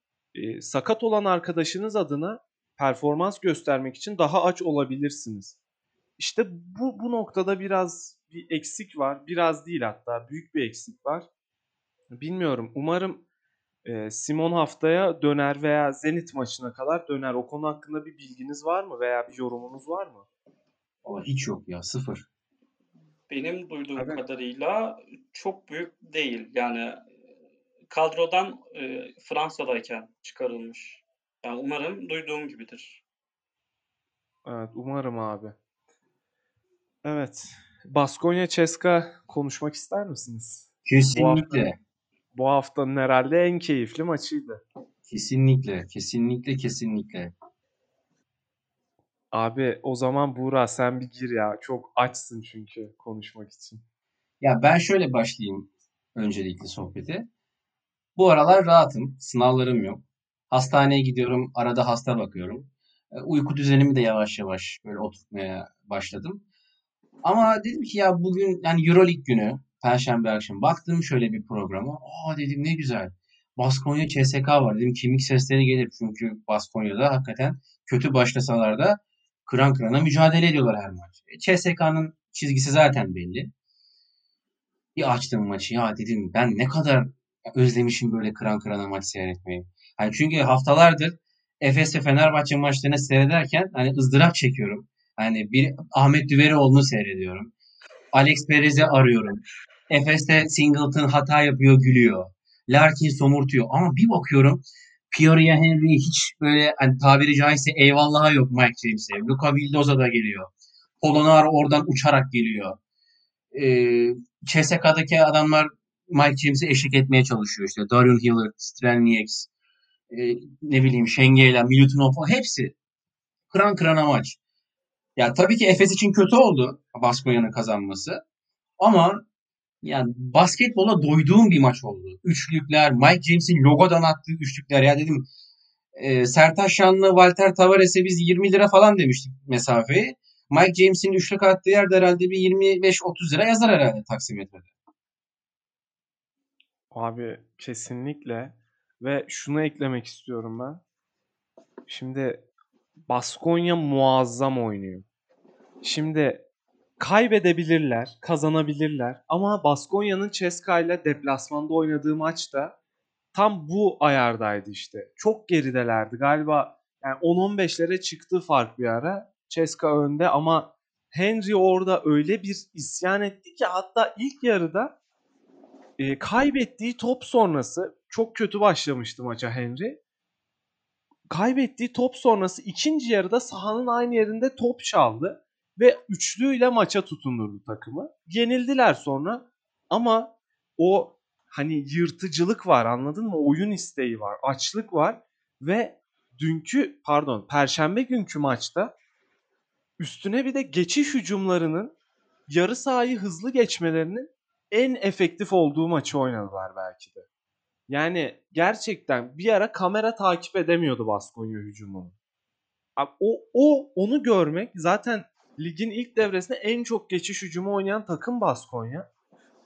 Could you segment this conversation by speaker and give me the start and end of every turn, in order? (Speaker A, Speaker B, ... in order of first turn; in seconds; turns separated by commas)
Speaker A: 0.3-5.6, Speaker A: 6.2-11.3, Speaker A: 12.1-13.2, Speaker A: 13.8-20.2, Speaker B: 21.0-22.2, Speaker C: 23.3-27.0, Speaker A: 24.0-24.2, Speaker C: 27.9-33.0, Speaker A: 34.4-35.5, Speaker A: 37.0-41.6, Speaker B: 40.9-41.7, Speaker A: 42.3-44.6, Speaker B: 45.1-47.3, Speaker A: 49.3-53.8, Speaker B: 54.4-57.3, Speaker B: 58.1-66.4, Speaker B: 67.2-83.5, Speaker B: 85.0-97.5, Speaker B: 98.1-110.5, Speaker B: 111.0-112.8, Speaker B: 113.5-119.5, Speaker B: 120.1-122.7, Speaker B: 123.5-124.4, Speaker B: 125.2-128.2, Speaker B: 128.8-129.2, Speaker B: 129.8-135.3, Speaker B: 135.9-144.7, Speaker A: 146.9-150.8, Speaker A: 151.9-152.4, Speaker A: 153.1-155.1, Speaker A: 155.8-156.4, Speaker A: 157.0-162.7, Speaker A: 163.3-174.9, Speaker A: 176.0-180.0, Speaker A: 181.3-198.9, Speaker A: 200.0-201.9, Speaker A: 202.5-207.3, Speaker A: 207.9-212.1, Speaker A: 213.0-219.1